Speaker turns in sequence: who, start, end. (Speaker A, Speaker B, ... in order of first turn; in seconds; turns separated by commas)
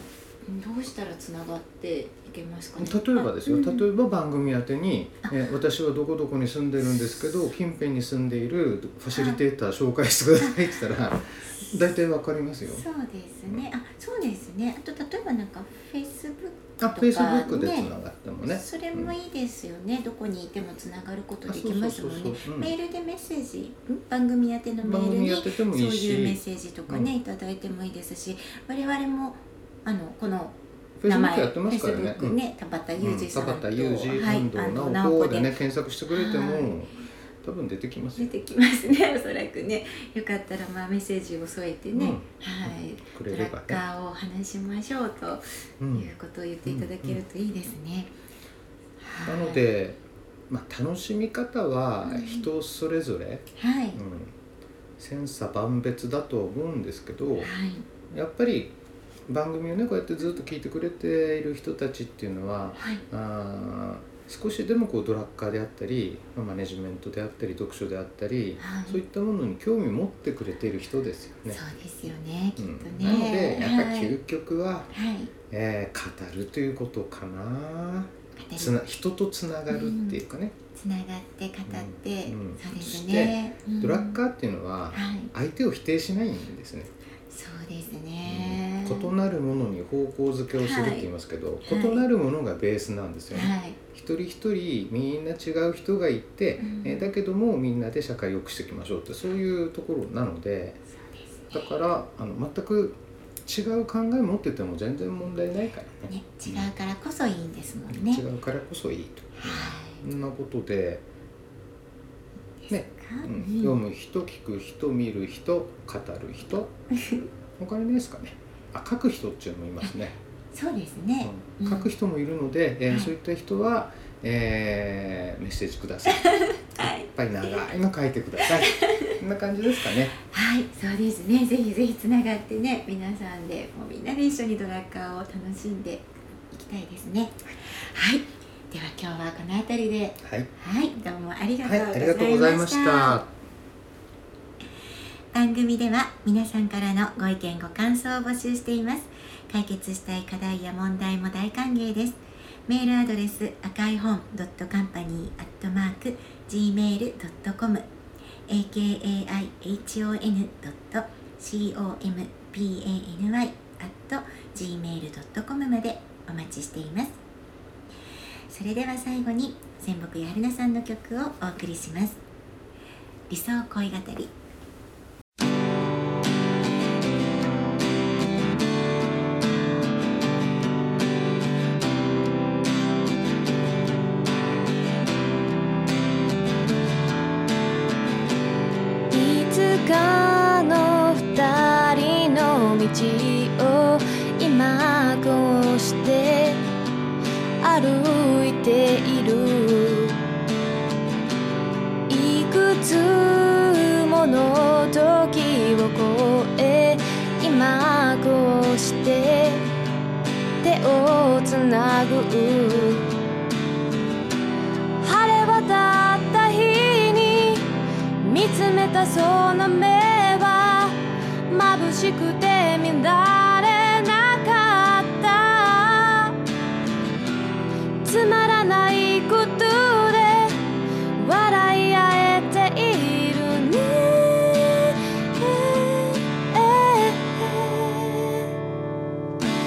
Speaker A: 0.4-3.8, Speaker B: 2.8-12.8, Speaker A: 9.1-9.4, Speaker A: 12.7-17.9, Speaker B: 16.8-19.1, Speaker A: 18.4-35.5, Speaker B: 21.5-22.7, Speaker B: 24.8-27.1, Speaker B: 31.0-32.4, Speaker B: 33.0-38.3, Speaker A: 36.1-36.8, Speaker A: 38.2-48.1, Speaker B: 41.9-43.8, Speaker B: 45.8-46.1, Speaker B: 46.6-47.2, Speaker A: 49.0-49.6, Speaker B: 49.2-54.3, Speaker A: 52.0-52.5, Speaker A: 53.5-54.0, Speaker B: 55.0-57.5, Speaker A: 57.4-57.9, Speaker B: 58.1-58.7, Speaker B: 59.3-71.6, Speaker A: 62.8-63.0, Speaker A: 68.6-69.0, Speaker A: 71.5-74.1, Speaker B: 72.6-74.9, Speaker A: 74.9-75.3, Speaker B: 75.5-80.5, Speaker A: 78.4-78.7, Speaker A: 79.7-80.2, Speaker A: 80.7-84.2, Speaker B: 81.7-86.9, Speaker A: 84.9-85.3, Speaker A: 87.3-89.1, Speaker B: 88.2-100.8, Speaker A: 90.5-91.1, Speaker A: 91.6-92.0, Speaker A: 93.3-93.8, Speaker A: 96.6-97.1, Speaker A: 101.2-101.7, Speaker B: 101.5-106.7, Speaker A: 106.1-108.2, Speaker B: 107.9-111.0, Speaker A: 109.4-110.0, Speaker A: 112.6-113.8, Speaker B: 112.7-116.7, Speaker A: 116.9-117.2, Speaker B: 117.6-120.2, Speaker A: 120.5-121.9, Speaker B: 121.2-130.1, Speaker A: 126.1-127.1, Speaker A: 128.7-129.2, Speaker A: 130.2-143.2, Speaker B: 140.2-140.5, Speaker B: 141.6-143.3, Speaker A: 145.3-157.8, Speaker A: 158.5-167.2, Speaker A: 168.5-172.2, Speaker A: 173.3-174.3, Speaker C: 189.1-196.6, Speaker C: 197.6-200.2, Speaker C: 202.1-209.7, Speaker C: 210.6-213.1, Speaker C: 215.0-217.7, Speaker C: 218.2-226.4, Speaker C: 228.0-230.6, Speaker C: 231.2-238.5